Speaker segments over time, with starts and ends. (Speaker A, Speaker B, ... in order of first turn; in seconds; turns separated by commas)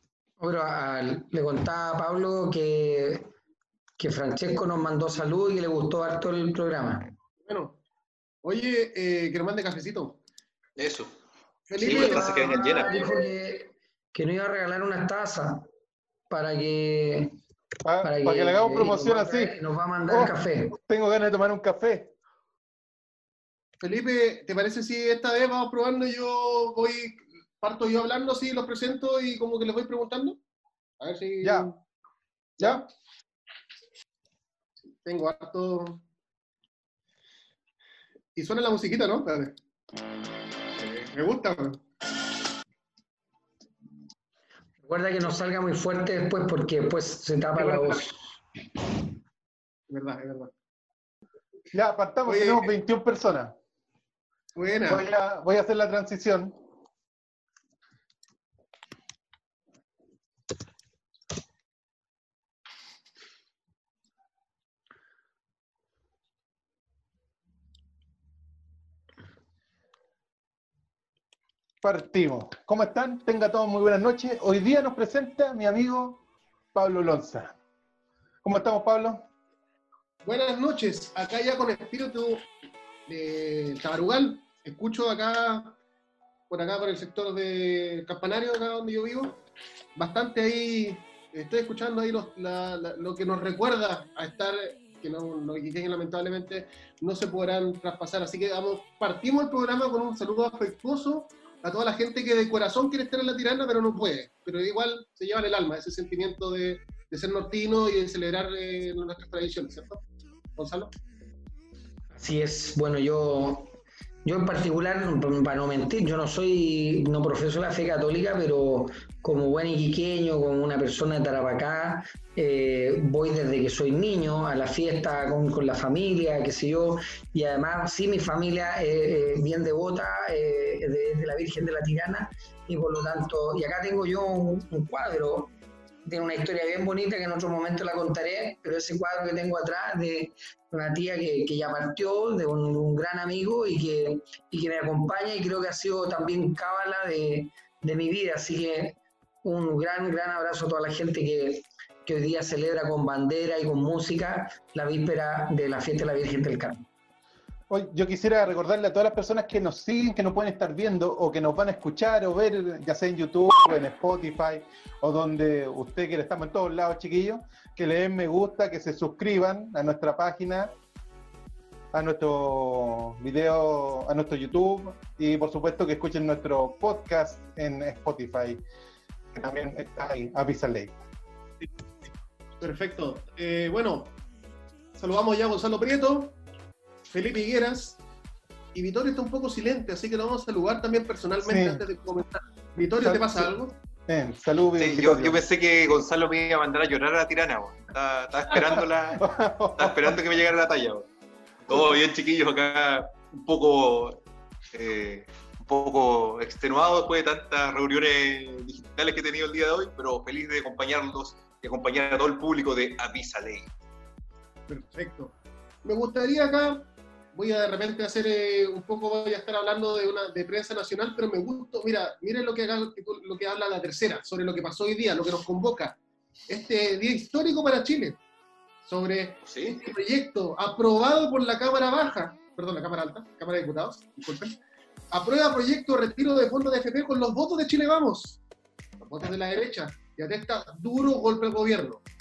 Speaker A: 0.4-3.3, Speaker A: 4.0-7.1, Speaker B: 7.5-7.8, Speaker B: 8.4-10.2, Speaker C: 10.8-11.1, Speaker B: 11.7-13.2, Speaker C: 11.8-13.2, Speaker A: 11.8-15.7, Speaker A: 16.3-17.3, Speaker D: 17.8-19.6, Speaker A: 18.0-20.8, Speaker D: 20.1-22.1, Speaker B: 23.8-30.4, Speaker B: 31.0-31.8, Speaker D: 31.4-31.7, Speaker B: 32.6-32.9, Speaker D: 32.6-32.8, Speaker B: 35.0-36.0, Speaker B: 38.3-39.5, Speaker B: 40.8-41.8, Speaker A: 44.8-48.3, Speaker B: 47.6-48.0, Speaker B: 49.9-50.5, Speaker D: 51.7-53.5, Speaker B: 52.3-52.7, Speaker B: 54.5-55.0, Speaker D: 54.9-56.5, Speaker D: 71.8-76.2, Speaker D: 76.7-77.6, Speaker D: 78.4-79.2, Speaker B: 80.2-82.5, Speaker B: 83.1-85.8, Speaker B: 86.5-89.4, Speaker B: 90.0-110.0, Speaker B: 110.5-110.9, Speaker A: 112.2-113.7, Speaker A: 114.2-135.5, Speaker A: 136.0-156.8, Speaker D: 157.7-170.7, Speaker D: 171.9-178.6, Speaker D: 179.3-180.9, Speaker B: 182.6-184.1, Speaker B: 184.9-186.4, Speaker B: 187.1-188.0, Speaker B: 188.7-193.7, Speaker D: 191.4-191.8, Speaker D: 193.0-193.5, Speaker D: 194.1-195.4, Speaker C: 194.8-201.1, Speaker D: 198.5-200.2, Speaker C: 201.7-204.2, Speaker C: 204.7-213.7, Speaker B: 214.7-226.0, Speaker B: 226.5-228.2, Speaker B: 228.8-234.6, Speaker C: 229.4-229.8, Speaker B: 235.1-238.4, Speaker B: 239.0-242.0